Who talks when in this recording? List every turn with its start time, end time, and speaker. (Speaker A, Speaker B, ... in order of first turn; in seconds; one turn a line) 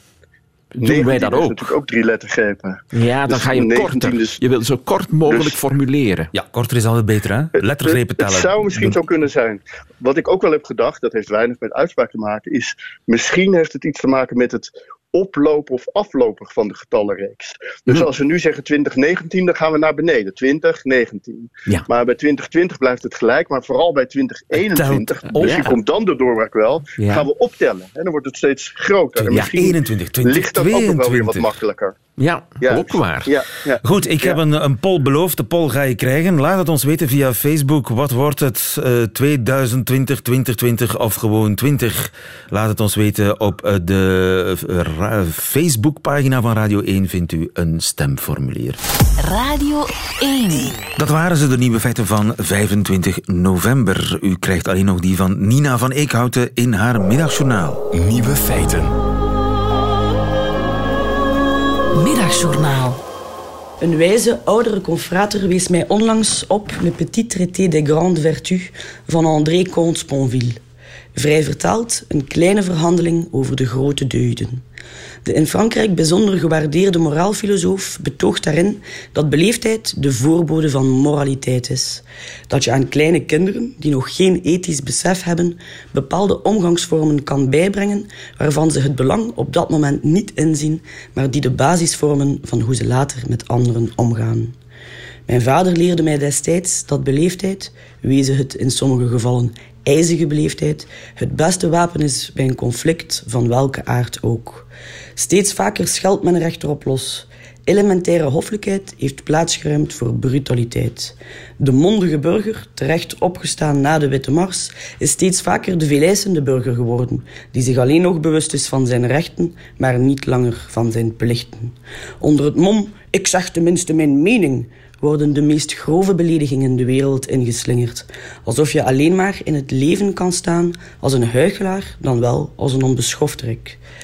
Speaker A: 0.8-1.7
Speaker B: 0.8-4.4
Speaker A: 2.9-6.3
Speaker B: 5.3-5.6
Speaker C: 6.3-9.0
Speaker B: 7.6-32.0
Speaker C: 24.6-25.7
Speaker A: 25.4-25.7
Speaker A: 27.0-27.3
Speaker C: 29.2-31.5
Speaker A: 32.2-33.4
Speaker B: 32.6-34.4
Speaker C: 33.8-48.8
Speaker D: 49.2-50.8
Speaker C: 51.0-58.9
Speaker D: 58.2-58.5
Speaker D: 62.0-63.0
Speaker E: 63.8-70.6
Speaker E: 71.2-74.7
Speaker E: 75.2-94.6
Speaker E: 95.3-133.8